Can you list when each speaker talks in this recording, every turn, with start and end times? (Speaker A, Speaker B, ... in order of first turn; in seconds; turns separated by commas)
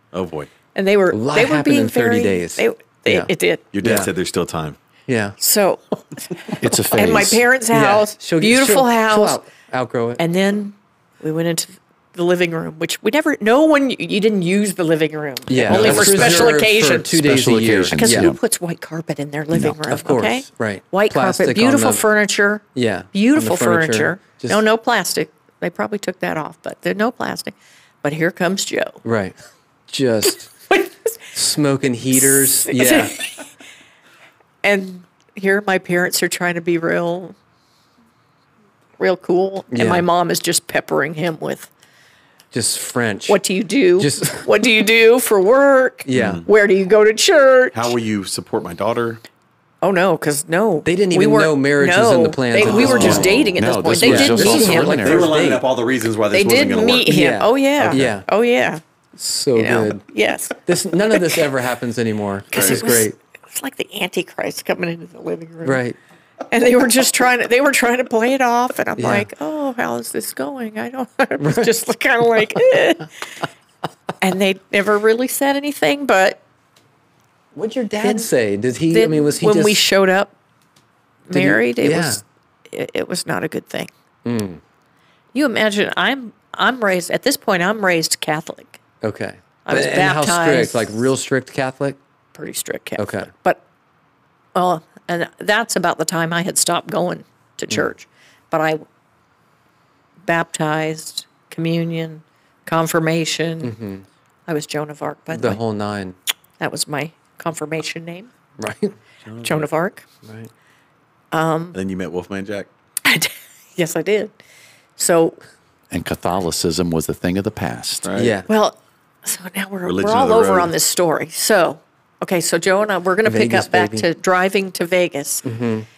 Speaker A: 0.1-0.5, Speaker B: 0.7-3.7, Speaker C: 1.1-4.1, Speaker A: 3.7-4.8, Speaker C: 5.1-5.4, Speaker B: 5.4-9.4, Speaker D: 6.6-7.4, Speaker C: 7.7-10.2, Speaker B: 10.2-17.3, Speaker C: 15.5-18.3, Speaker D: 15.7-18.4, Speaker B: 18.0-29.0, Speaker D: 19.5-19.8, Speaker C: 19.8-22.0, Speaker C: 22.8-24.6, Speaker C: 29.0-29.4, Speaker C: 29.9-30.5, Speaker B: 30.7-31.2, Speaker C: 31.3-33.2, Speaker B: 32.1-33.4, Speaker B: 34.6-37.4, Speaker B: 39.0-41.7, Speaker C: 39.7-40.0, Speaker C: 42.5-43.4, Speaker B: 43.3-48.0, Speaker C: 44.0-44.5, Speaker C: 46.0-46.4, Speaker A: 46.1-46.5, Speaker A: 47.7-49.2, Speaker B: 49.8-55.0, Speaker C: 50.8-55.6, Speaker A: 52.6-53.6, Speaker D: 53.6-55.3, Speaker A: 54.8-57.1, Speaker B: 56.3-58.8, Speaker C: 57.1-58.3, Speaker A: 57.8-58.1, Speaker C: 59.2-60.0, Speaker B: 59.6-60.6, Speaker C: 60.6-63.2, Speaker B: 61.1-61.5, Speaker A: 62.5-62.9, Speaker B: 62.5-65.8, Speaker C: 65.7-66.0, Speaker B: 66.5-73.1, Speaker C: 69.0-69.3, Speaker C: 71.4-71.7, Speaker B: 74.2-76.4, Speaker C: 77.5-79.9, Speaker B: 78.0-78.3, Speaker B: 78.9-80.3, Speaker B: 81.3-83.9, Speaker C: 81.3-82.2, Speaker C: 84.2-84.6, Speaker B: 85.3-88.8, Speaker C: 89.0-92.0, Speaker B: 89.7-91.0, Speaker B: 92.3-93.6, Speaker C: 93.0-93.3, Speaker B: 94.5-98.8, Speaker B: 100.2-103.7, Speaker C: 103.6-104.0, Speaker B: 104.5-105.6, Speaker C: 105.3-106.2, Speaker B: 106.6-108.3, Speaker C: 108.6-109.0, Speaker A: 109.2-109.7, Speaker B: 109.4-110.0, Speaker C: 110.2-110.5, Speaker B: 111.3-111.8, Speaker A: 111.7-112.7, Speaker B: 113.1-114.3, Speaker B: 115.0-115.4, Speaker D: 115.9-118.1, Speaker A: 118.0-118.4, Speaker C: 118.2-118.5, Speaker B: 118.5-125.5, Speaker A: 119.8-120.7, Speaker C: 123.2-124.1, Speaker C: 125.5-125.9